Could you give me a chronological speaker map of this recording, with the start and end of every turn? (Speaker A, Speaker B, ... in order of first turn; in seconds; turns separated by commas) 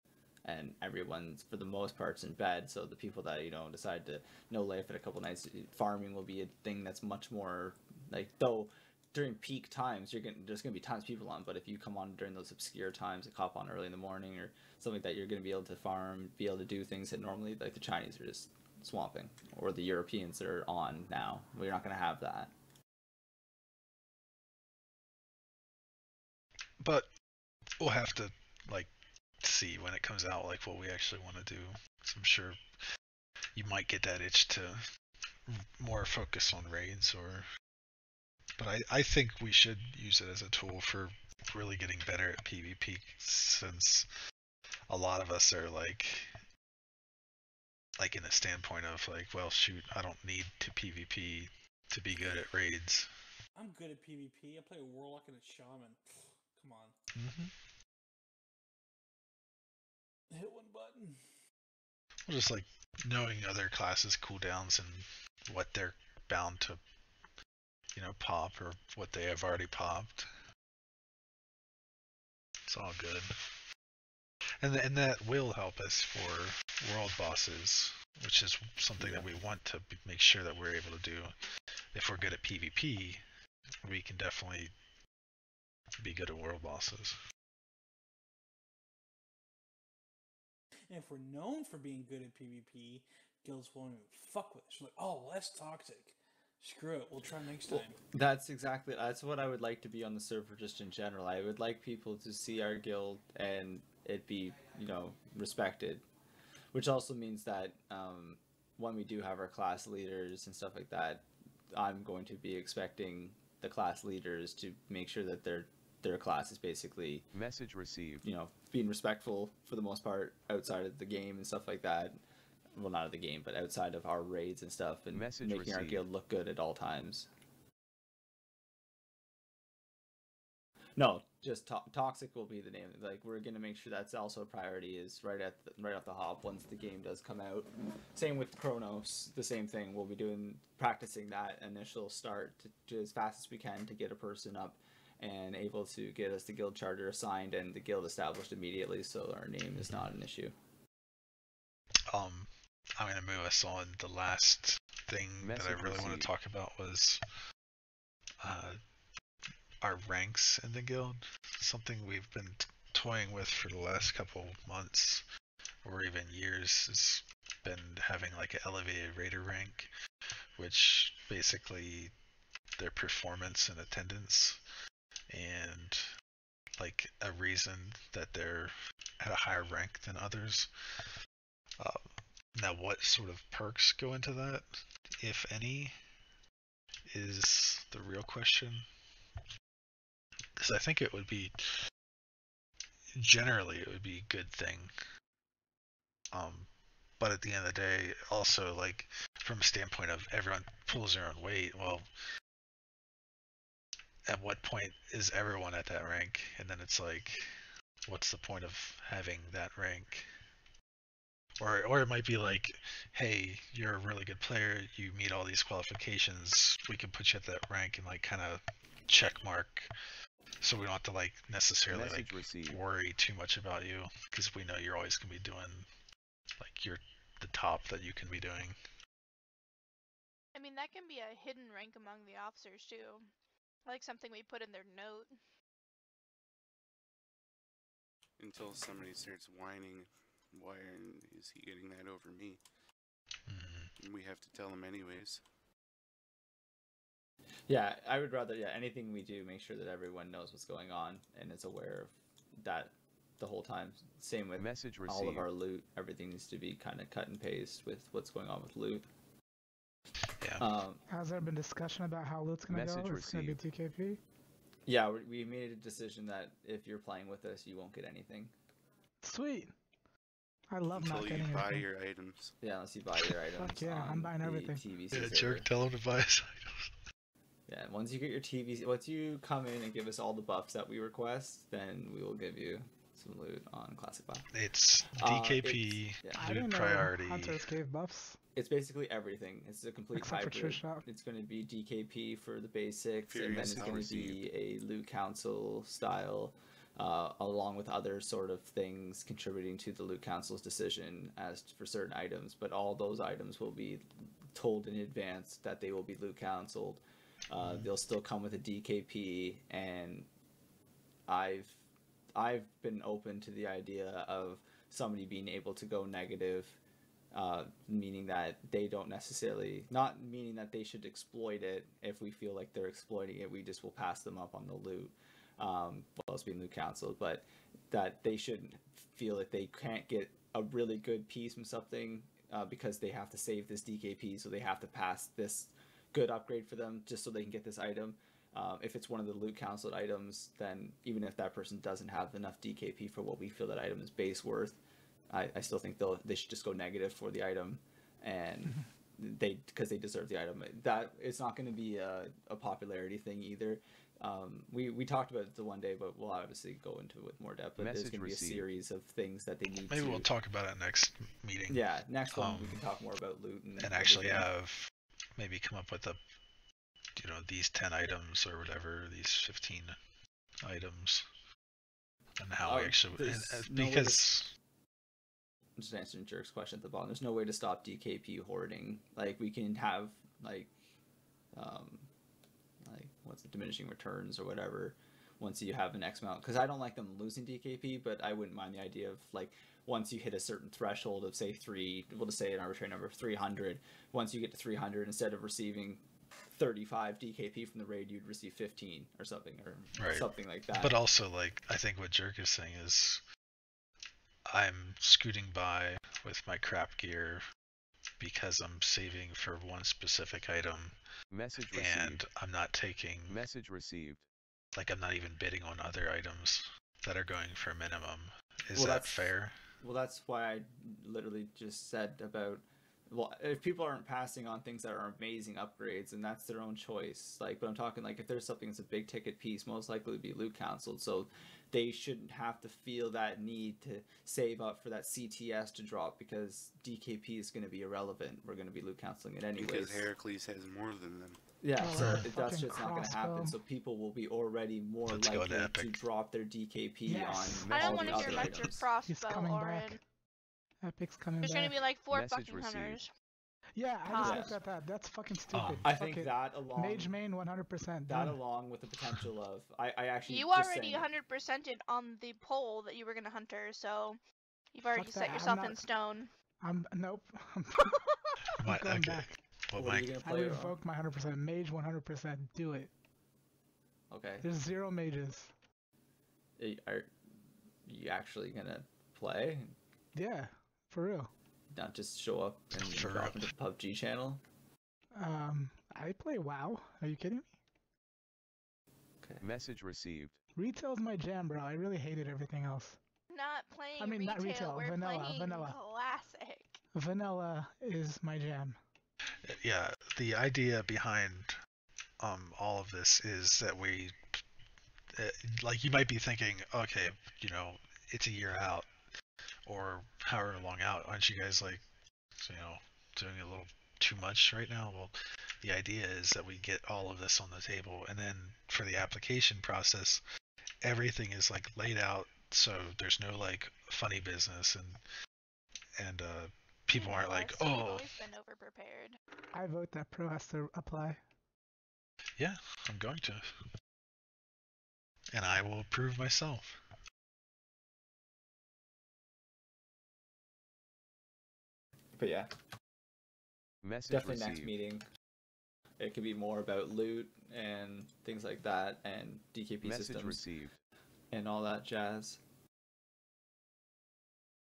Speaker A: 0.4-22.5, Speaker B: 26.8-27.1, Speaker B: 27.8-32.6, Speaker B: 33.5-34.8, Speaker B: 35.5-37.5, Speaker B: 38.6-44.1, Speaker B: 44.9-46.4, Speaker B: 48.0-53.1, Speaker C: 53.5-56.9, Speaker B: 57.1-57.5, Speaker C: 60.3-61.2, Speaker B: 62.2-66.8, Speaker B: 67.9-70.3, Speaker B: 72.7-73.6, Speaker B: 74.6-81.3, Speaker B: 81.9-83.2, Speaker B: 83.8-84.7, Speaker B: 86.0-87.2, Speaker C: 90.9-98.0, Speaker A: 97.7-106.0, Speaker A: 106.7-117.2, Speaker D: 117.3-118.2, Speaker A: 118.2-122.2, Speaker A: 122.7-127.3, Speaker D: 125.1-126.0, Speaker A: 131.0-150.5, Speaker B: 149.8-150.0, Speaker B: 152.1-157.2, Speaker D: 155.4-156.3, Speaker B: 158.4-158.8, Speaker B: 159.8-165.2, Speaker B: 165.8-169.9, Speaker B: 170.6-172.1, Speaker B: 172.8-174.6, Speaker B: 175.3-176.1, Speaker B: 176.7-180.7, Speaker B: 181.8-185.9, Speaker B: 187.1-188.8, Speaker B: 190.6-191.8, Speaker B: 193.2-194.9, Speaker B: 196.3-202.1, Speaker B: 204.3-207.4, Speaker B: 208.1-210.3, Speaker B: 211.6-219.9, Speaker B: 220.6-225.9, Speaker D: 221.9-222.8, Speaker B: 226.6-228.8, Speaker E: 230.5-233.3, Speaker E: 233.8-235.3, Speaker F: 238.4-242.6, Speaker B: 243.5-243.9, Speaker F: 244.0-245.4, Speaker A: 247.7-259.1, Speaker D: 254.6-255.4, Speaker B: 260.4-260.6, Speaker A: 260.6-261.0, Speaker G: 261.1-264.2, Speaker D: 262.7-263.6, Speaker A: 264.9-268.5, Speaker G: 269.2-269.7, Speaker G: 270.7-271.9, Speaker F: 270.9-272.5, Speaker A: 272.6-275.7, Speaker G: 273.5-274.8, Speaker B: 275.1-276.9, Speaker A: 277.7-284.5, Speaker B: 284.5-287.7, Speaker A: 285.2-286.6, Speaker G: 286.4-288.4, Speaker A: 288.5-310.3, Speaker G: 290.1-291.1, Speaker F: 293.3-294.4, Speaker B: 307.6-307.9, Speaker A: 311.3-311.8, Speaker A: 312.3-316.8, Speaker A: 317.3-344.8, Speaker A: 345.3-360.3, Speaker D: 357.8-358.6, Speaker B: 359.9-362.8, Speaker A: 361.7-364.5, Speaker B: 363.8-366.2, Speaker B: 367.1-369.9, Speaker B: 370.6-371.2, Speaker B: 372.4-374.5, Speaker A: 372.6-374.3, Speaker A: 375.8-380.7, Speaker A: 381.5-382.1, Speaker A: 382.9-401.0, Speaker B: 400.0-403.2, Speaker B: 404.5-407.4, Speaker B: 408.2-411.0, Speaker D: 411.3-412.2, Speaker B: 411.7-413.4, Speaker D: 413.3-414.2, Speaker B: 414.7-419.6, Speaker A: 418.7-440.1, Speaker F: 439.6-441.4, Speaker A: 441.6-448.9, Speaker G: 441.8-443.6, Speaker B: 441.9-442.2, Speaker B: 445.1-446.0, Speaker G: 447.1-448.4, Speaker D: 447.7-448.5, Speaker E: 447.7-450.0, Speaker G: 449.1-450.0, Speaker G: 450.8-451.8, Speaker E: 451.4-453.1, Speaker D: 452.1-453.0, Speaker G: 453.8-458.4, Speaker E: 454.1-454.6, Speaker A: 454.2-454.6, Speaker B: 455.5-455.9, Speaker A: 455.8-457.2, Speaker A: 458.1-461.1, Speaker E: 460.2-464.2, Speaker E: 464.7-466.3, Speaker G: 464.9-465.8, Speaker G: 466.6-467.9, Speaker E: 467.8-468.5, Speaker B: 468.6-470.1, Speaker G: 468.6-469.3, Speaker A: 469.8-470.8, Speaker G: 470.2-472.9, Speaker A: 474.1-474.5, Speaker G: 474.4-475.5, Speaker A: 476.6-477.1, Speaker A: 477.9-479.7, Speaker G: 480.1-481.3, Speaker A: 481.7-484.4, Speaker B: 482.7-483.5, Speaker G: 485.1-487.5, Speaker D: 489.4-490.3, Speaker G: 490.5-493.0, Speaker E: 493.3-496.8, Speaker G: 494.0-495.8, Speaker G: 496.9-498.8, Speaker B: 499.4-501.5, Speaker B: 502.2-504.4, Speaker B: 505.1-508.9, Speaker B: 509.6-511.8, Speaker B: 512.4-520.2, Speaker B: 520.8-525.0, Speaker B: 526.0-528.1, Speaker E: 526.9-529.2, Speaker G: 529.5-531.2, Speaker B: 532.4-533.5, Speaker B: 535.3-536.8, Speaker A: 542.2-542.5, Speaker D: 543.8-544.7, Speaker A: 544.1-545.0, Speaker A: 546.0-550.4, Speaker D: 549.8-550.7, Speaker A: 551.3-552.4